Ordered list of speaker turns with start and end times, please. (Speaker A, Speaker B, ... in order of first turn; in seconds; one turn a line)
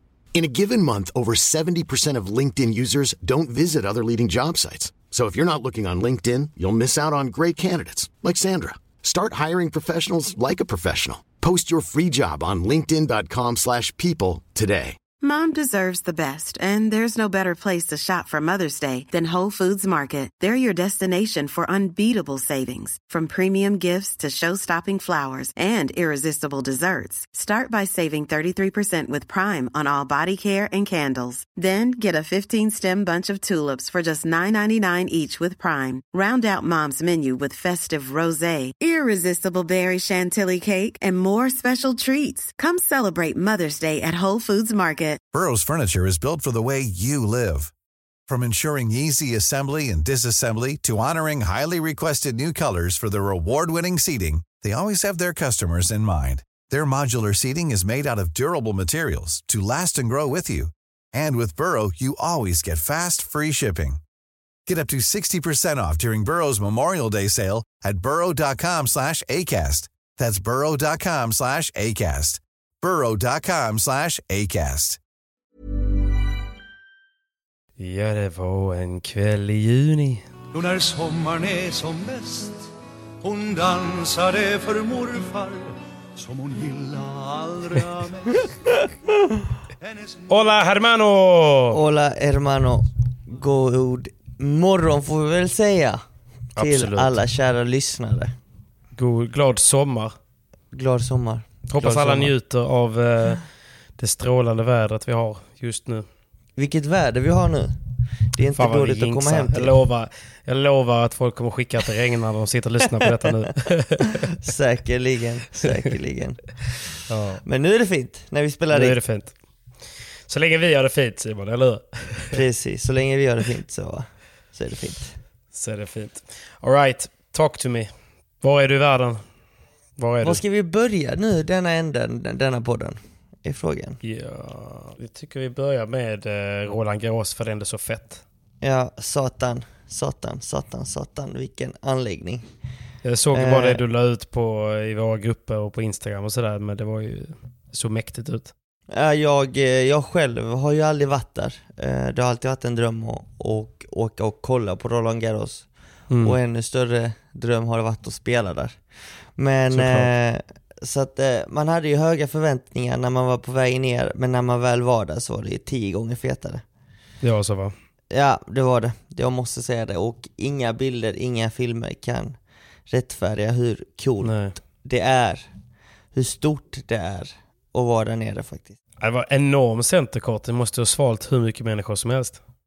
Speaker A: 0.3-15.0
Speaker B: 15.2-45.2
Speaker C: 45.3-47.7
Speaker C: 48.3-64.0
Speaker C: 64.7-75.0
Speaker D: 77.8-80.3
Speaker E: 80.5-82.7
Speaker E: 83.2-88.8
Speaker E: 89.8-90.3
Speaker D: 90.3-91.8
Speaker F: 91.7-96.0
Speaker D: 96.6-97.2
Speaker F: 96.6-98.3
Speaker D: 99.0-100.2
Speaker F: 100.7-102.3
Speaker D: 101.7-103.4
Speaker D: 104.0-106.1
Speaker F: 106.6-107.8
Speaker F: 108.3-109.8
Speaker D: 108.5-114.3
Speaker F: 114.4-116.8
Speaker D: 117.1-117.4
Speaker F: 117.4-119.0
Speaker D: 118.7-119.4
Speaker D: 120.3-122.4
Speaker F: 122.3-125.2
Speaker D: 125.5-129.2
Speaker D: 130.0-130.4
Speaker F: 130.2-134.0
Speaker D: 134.0-138.2
Speaker F: 138.6-142.5
Speaker D: 143.0-148.5
Speaker F: 143.3-143.8
Speaker F: 148.9-155.7
Speaker D: 156.1-156.4
Speaker F: 156.2-158.8
Speaker F: 159.4-166.6
Speaker D: 159.7-160.1
Speaker D: 167.2-167.7
Speaker F: 168.1-172.4
Speaker F: 172.9-175.5
Speaker D: 174.2-174.5
Speaker F: 176.1-178.8
Speaker D: 179.0-182.4